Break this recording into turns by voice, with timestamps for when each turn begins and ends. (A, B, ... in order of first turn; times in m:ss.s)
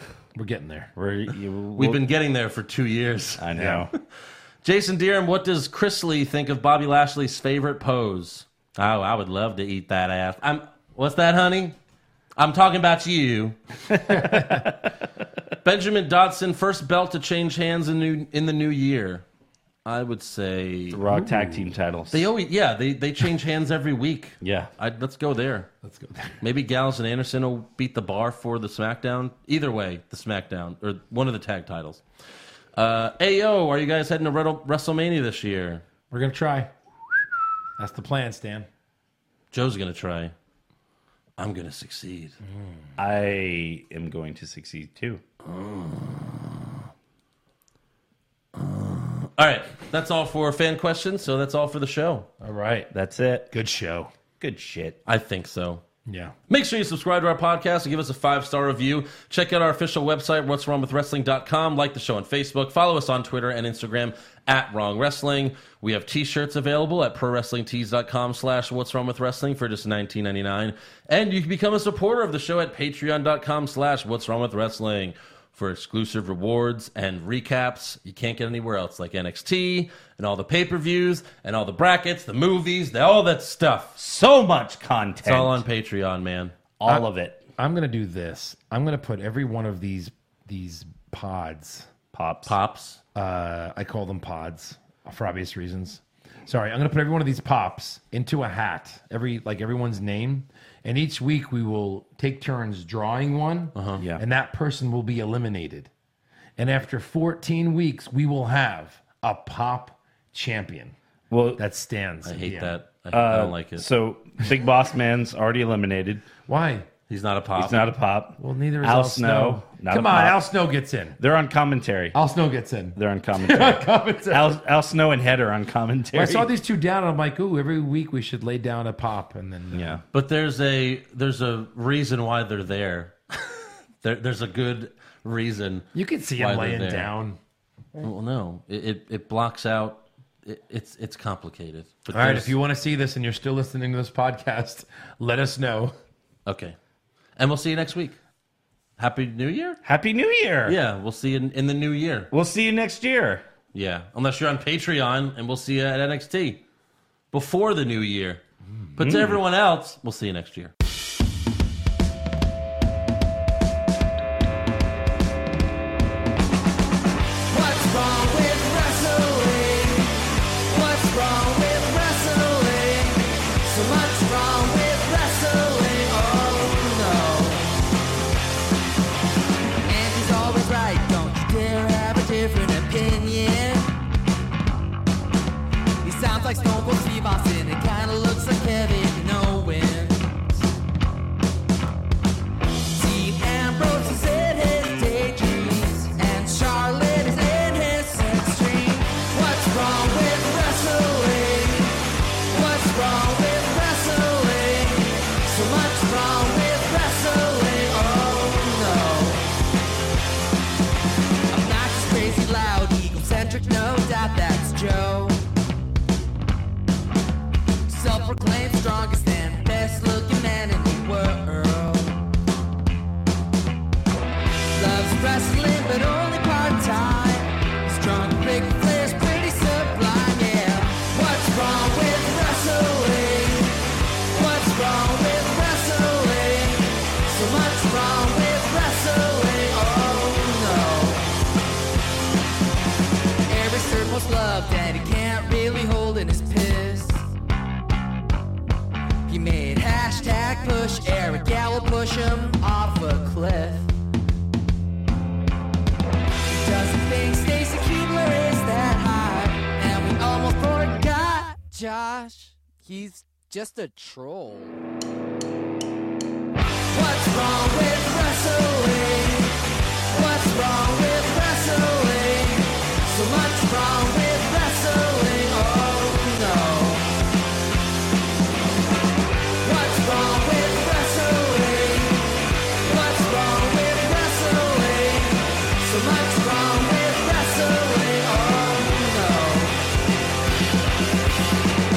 0:00.3-0:00.9 A
0:01.0-0:02.0 B
0:01.8-0:03.4 C
0:03.4-0:03.9 B
0:03.6-0:03.8 A
0:04.6-0:11.8 C
0:12.4-0:13.6 C
0:13.9-0:14.9 B
0:15.6-0:19.2 C
0:19.8-0:21.0 C
0:20.9-0:22.3 B
0:21.1-0:21.7 A
0:22.1-0:25.7 C
0:24.4-0:24.7 B
0:25.8-0:26.4 A
0:26.4-0:32.0 C
0:32.7-0:35.8 C
0:36.1-0:36.7 A
0:37.8-0:38.7 A
0:39.5-0:40.3 C
0:41.4-0:42.4 C
0:42.5-0:42.7 A
0:43.0-0:45.2 B
0:45.4-0:46.8 C
0:48.5-0:52.3 C
0:52.4-0:52.9 A
0:52.9-0:53.5 B
0:53.5-0:54.1 A
0:54.4-0:55.0 B
0:55.0-0:55.8 C
0:56.0-0:56.3 A
0:56.5-1:24.0 C
1:24.0-1:25.6 B
1:25.2-1:26.5 C
1:26.8-1:27.4 B
1:27.6-1:31.9 A
1:32.1-1:32.6 B
1:32.4-1:33.0 C
1:33.1-1:45.9 A
1:43.7-1:44.0 C
1:44.0-1:44.2 B
1:46.6-1:50.9 A
1:51.3-1:51.6 B
1:51.6-1:52.8 A
1:52.2-1:53.8 C
1:53.1-1:56.2 B
1:56.4-1:56.9 A
1:57.1-1:57.9 C
1:57.6-2:00.4 B
1:58.4-2:01.2 A
2:01.2-2:02.2 B
2:02.1-2:04.6 A
2:02.9-2:06.5 B
2:06.1-2:10.0 A
2:09.7-2:10.0 B
2:10.1-2:13.2 C
2:14.0-2:17.1 C
2:15.9-2:17.4 A
2:18.0-2:22.5 C
2:22.1-2:25.9 A
2:26.4-2:26.8 C
2:27.4-2:28.2 C
2:29.0-2:29.8 C
2:29.8-2:30.8 B
2:30.6-2:32.3 C
2:32.3-2:33.4 B
2:33.7-2:36.6 C
2:37.3-2:38.4 C
2:39.0-2:39.4 B
2:39.0-2:40.7 C
2:47.5-2:50.2 D
2:50.7-2:57.7 D
2:59.9-3:03.9 D
3:06.0-3:10.2 D
3:12.9-3:22.0 D
3:22.5-3:29.4 D
3:31.5-3:35.4 D
3:37.9-3:42.2 D
3:44.7-3:53.8 D
3:54.3-4:01.3 D
4:03.5-4:07.3 D
4:09.3-4:13.9 D
4:16.5-4:24.8 D
4:26.9-4:37.0 D
4:39.6-4:49.8 D